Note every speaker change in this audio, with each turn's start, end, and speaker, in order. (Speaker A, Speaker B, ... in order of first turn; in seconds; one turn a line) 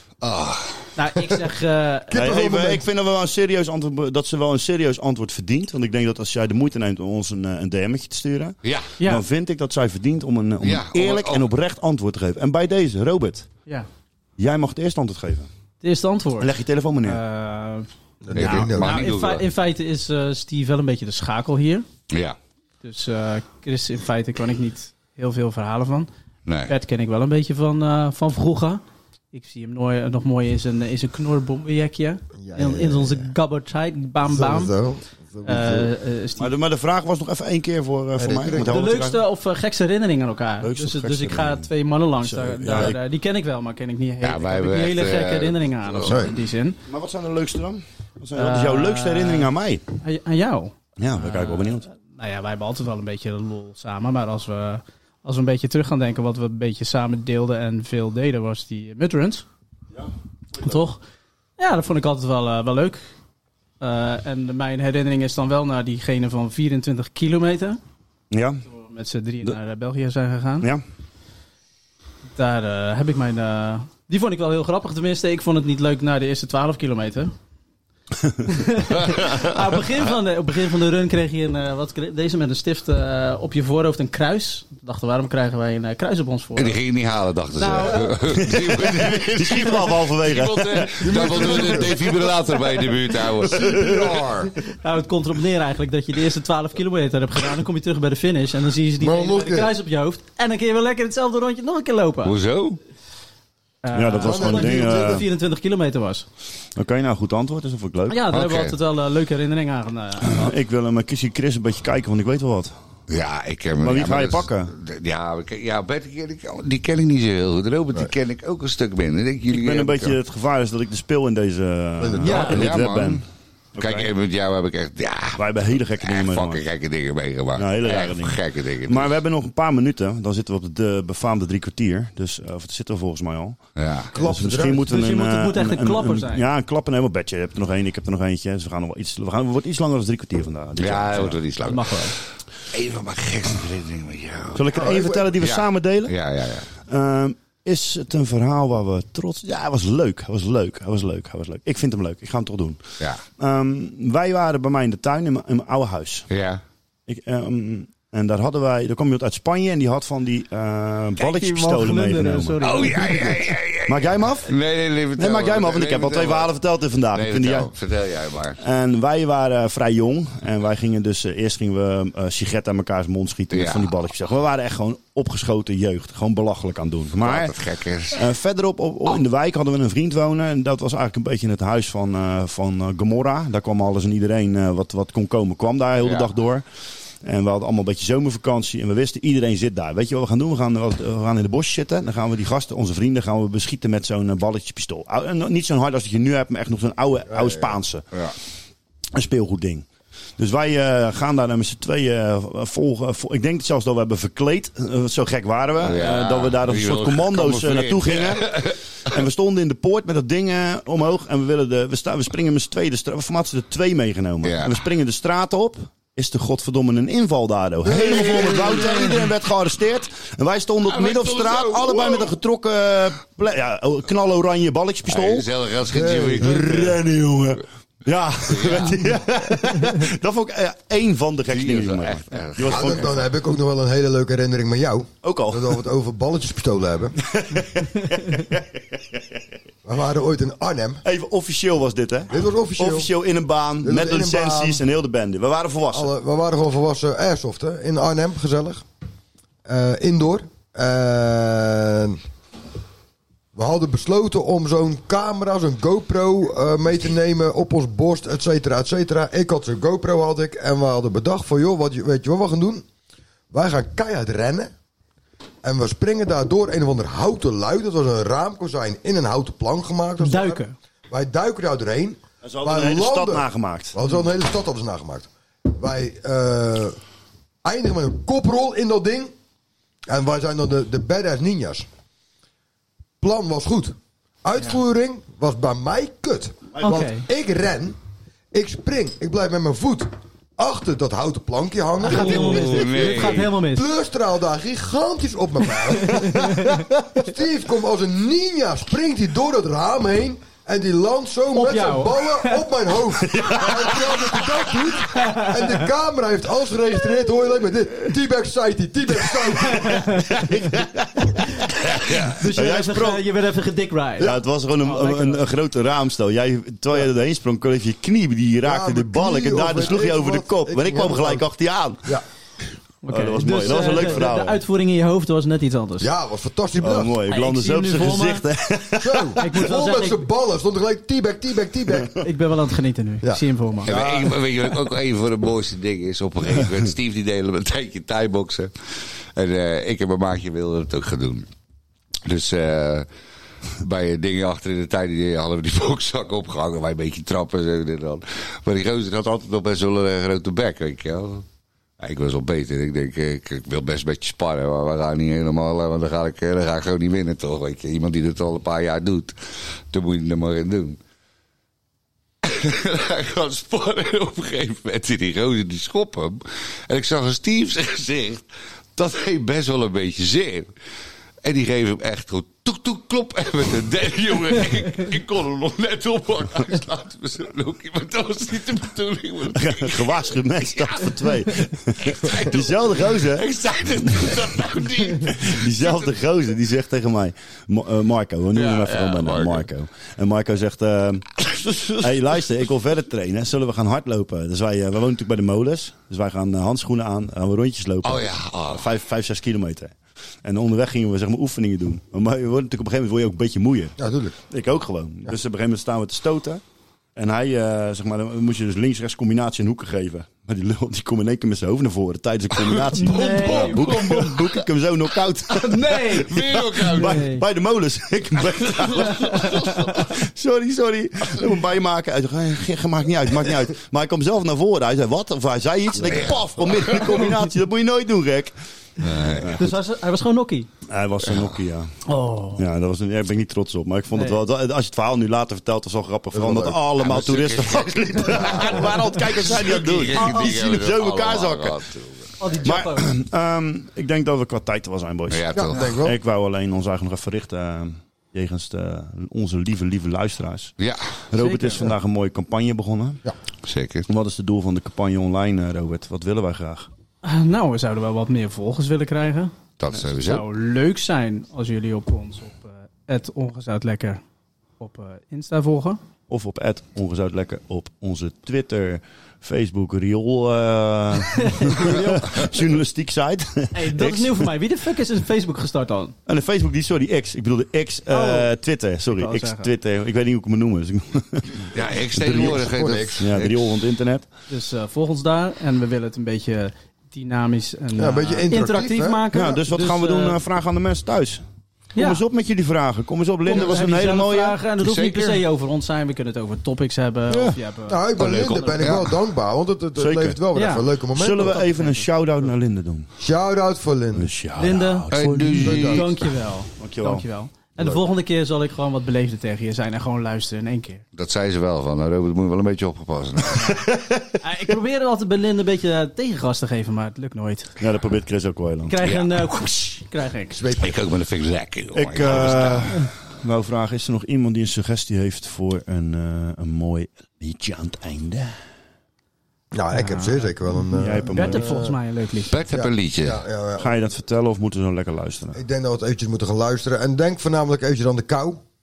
Speaker A: 0.2-0.9
Speaker B: 1.0-2.4
Speaker C: 2.1-2.9
Speaker D: 2.1-13.5
Speaker A: 8.6-8.9
Speaker A: 10.6-11.5
Speaker D: 14.4-15.5
Speaker B: 15.8-16.5
Speaker D: 16.4-17.2
Speaker B: 17.1-21.9
Speaker C: 18.2-19.0
Speaker A: 18.3-19.4
Speaker A: 22.1-22.4
Speaker B: 22.8-26.1
Speaker A: 26.5-26.7
Speaker B: 26.7-28.8
Speaker B: 29.3-34.8
Speaker C: 32.4-33.3
Speaker C: 34.2-35.9
Speaker B: 35.5-36.5
Speaker D: 36.4-39.2
Speaker C: 38.2-38.8
Speaker B: 38.6-46.8
Speaker D: 40.6-41.7
Speaker D: 42.2-43.0
Speaker A: 44.2-46.3
Speaker C: 46.1-46.3
Speaker D: 46.9-49.8
Speaker B: 48.4-59.4
Speaker D: 51.0-51.9
Speaker D: 59.9-60.8
Speaker B: 60.6-61.0
Speaker B: 61.6-63.0
Speaker B: 63.8-67.8
Speaker D: 68.3-68.6
Speaker B: 68.7-70.7
Speaker B: 72.3-77.3
Speaker B: 78.5-86.8
Speaker A: 86.6-94.5
Speaker B: 87.5-88.2
Speaker D: 88.3-91.8
Speaker C: 91.0-91.9
Speaker D: 93.6-94.2
Speaker C: 93.8-94.5
Speaker B: 94.7-102.3
Speaker C: 99.0-99.7
Speaker A: 102.2-102.8
Speaker B: 103.8-106.3
Speaker D: 103.9-105.3
Speaker C: 104.2-105.2
Speaker D: 106.8-108.3
Speaker B: 108.1-110.5
Speaker A: 108.3-108.8
Speaker D: 110.3-112.7
Speaker A: 113.1-120.2
Speaker D: 113.8-114.7
Speaker D: 119.5-123.2
Speaker C: 122.0-122.5
Speaker A: 122.2-123.2
Speaker B: 122.2-122.7
Speaker D: 123.8-124.1
Speaker A: 123.8-125.4
Speaker D: 125.3-126.7
Speaker A: 126.0-129.1
Speaker D: 127.6-133.6
Speaker A: 133.8-134.1
Speaker C: 134.1-134.8
Speaker D: 134.2-141.4
Speaker B: 134.9-136.4
Speaker A: 140.8-142.2
Speaker B: 141.7-142.2
Speaker A: 142.7-144.8
Speaker D: 144.5-146.2
Speaker C: 144.7-145.3
Speaker A: 145.4-146.7
Speaker D: 146.9-152.8
Speaker D: 153.4-156.3
Speaker A: 156.3-156.6
Speaker D: 157.1-162.6
Speaker B: 161.2-163.4
Speaker A: 162.6-166.5
Speaker D: 163.8-164.5
Speaker D: 165.2-167.7
Speaker A: 167.1-168.6
Speaker D: 168.6-177.6
Speaker A: 173.5-173.9
Speaker A: 177.2-178.3
Speaker D: 178.1-186.6
Speaker A: 186.0-186.3
Speaker D: 187.2-198.0
Speaker C: 197.3-197.7
Speaker D: 199.2-199.8
Speaker D: 200.4-225.5
Speaker A: 205.8-208.8
Speaker A: 214.4-214.8
Speaker C: 217.8-219.2
Speaker A: 220.8-222.3
Speaker A: 225.1-227.0
Speaker C: 225.9-227.0
Speaker D: 226.4-233.2
Speaker A: 228.4-229.2
Speaker A: 231.5-233.2
Speaker C: 232.7-237.2
Speaker D: 235.2-235.8
Speaker D: 237.2-239.4
Speaker C: 239.8-241.0
Speaker D: 241.1-246.1
Speaker C: 242.3-243.1
Speaker C: 243.8-244.8
Speaker C: 245.9-248.8
Speaker C: 249.7-252.2
Speaker C: 253.6-262.8
Speaker C: 263.5-264.7
Speaker C: 265.6-277.0
Speaker B: 270.2-270.7
Speaker D: 272.4-273.9
Speaker C: 277.6-279.3
Speaker C: 280.1-281.9
Speaker C: 283.2-288.0
Speaker B: 286.8-287.3
Speaker C: 288.5-310.2
Speaker B: 292.0-293.9
Speaker A: 292.1-293.5
Speaker B: 295.9-296.9
Speaker B: 301.5-302.7
Speaker D: 303.4-304.3
Speaker B: 305.1-305.8
Speaker B: 309.6-310.6
Speaker D: 310.4-313.2
Speaker B: 311.2-315.4
Speaker D: 314.2-322.2
Speaker C: 318.6-321.4
Speaker B: 323.0-326.1
Speaker D: 323.1-324.6
Speaker C: 323.9-324.2
Speaker C: 326.0-327.1
Speaker D: 326.8-329.6
Speaker B: 327.3-328.4
Speaker C: 329.0-332.2
Speaker B: 329.4-330.3
Speaker B: 332.1-333.9
Speaker C: 333.2-334.7
Speaker A: 333.8-338.7
Speaker A: 339.3-341.5
Speaker A: 342.2-343.1
Speaker A: 343.8-351.4
Speaker A: 352.0-359.4
Speaker A: 359.9-361.0
Speaker A: 362.4-370.7
Speaker A: 371.4-386.2
Speaker D: 379.5-383.5
Speaker D: 384.1-384.4
Speaker D: 385.3-391.3
Speaker A: 388.6-389.7
Speaker A: 391.4-392.2
Speaker D: 392.0-404.0
Speaker A: 398.0-398.9
Speaker C: 404.0-404.4
Speaker D: 404.5-406.6
Speaker D: 407.2-428.5
Speaker A: 412.7-414.5
Speaker B: 412.9-414.4
Speaker B: 415.5-417.4
Speaker A: 416.1-417.2
Speaker A: 418.4-420.1
Speaker A: 426.0-427.2
Speaker A: 429.0-429.6
Speaker D: 429.3-429.6
Speaker B: 429.5-430.7
Speaker D: 430.9-431.9
Speaker B: 432.1-432.6
Speaker D: 432.6-441.8
Speaker B: 434.1-434.4
Speaker C: 436.3-436.8
Speaker A: 437.0-442.3
Speaker B: 440.1-440.6
Speaker B: 442.4-443.1
Speaker D: 442.6-450.7
Speaker A: 445.3-445.9
Speaker C: 445.5-446.1
Speaker A: 450.8-451.1
Speaker D: 451.3-453.2
Speaker B: 451.4-451.9
Speaker A: 453.6-454.1
Speaker D: 454.1-456.9
Speaker B: 457.2-459.5
Speaker A: 459.8-460.5
Speaker B: 460.2-464.2
Speaker B: 464.8-466.0
Speaker D: 466.3-474.5
Speaker B: 471.3-472.3
Speaker A: 471.9-472.2
Speaker B: 473.7-476.1
Speaker D: 476.3-482.6
Speaker B: 478.1-478.5
Speaker B: 479.1-479.7
Speaker A: 481.7-483.6
Speaker C: 482.2-483.3
Speaker D: 483.2-484.3
Speaker B: 484.5-490.4
Speaker C: 488.0-489.2
Speaker D: 489.3-491.4
Speaker B: 492.0-492.2
Speaker D: 492.0-494.6
Speaker B: 493.5-498.9
Speaker A: 494.8-495.4
Speaker D: 497.3-497.6
Speaker C: 497.9-501.6
Speaker A: 498.4-499.2
Speaker D: 500.0-500.4
Speaker B: 500.5-500.9
Speaker D: 501.1-503.1
Speaker B: 501.4-502.1
Speaker C: 503.2-504.3
Speaker D: 504.1-506.0
Speaker B: 504.6-505.1
Speaker A: 505.1-506.2
Speaker C: 505.6-506.1
Speaker B: 505.7-511.0
Speaker D: 506.8-507.2
Speaker A: 511.1-513.8
Speaker B: 513.5-513.9
Speaker D: 513.9-514.3
Speaker B: 514.4-517.8
Speaker D: 517.8-519.0
Speaker B: 518.9-520.6
Speaker A: 519.0-519.4
Speaker C: 520.5-521.0
Speaker A: 520.8-522.9
Speaker D: 521.9-528.5
Speaker C: 529.7-531.9
Speaker B: 529.9-532.5
Speaker D: 531.0-531.9
Speaker A: 532.5-533.4
Speaker C: 532.7-533.9
Speaker D: 533.8-535.6
Speaker C: 535.5-538.6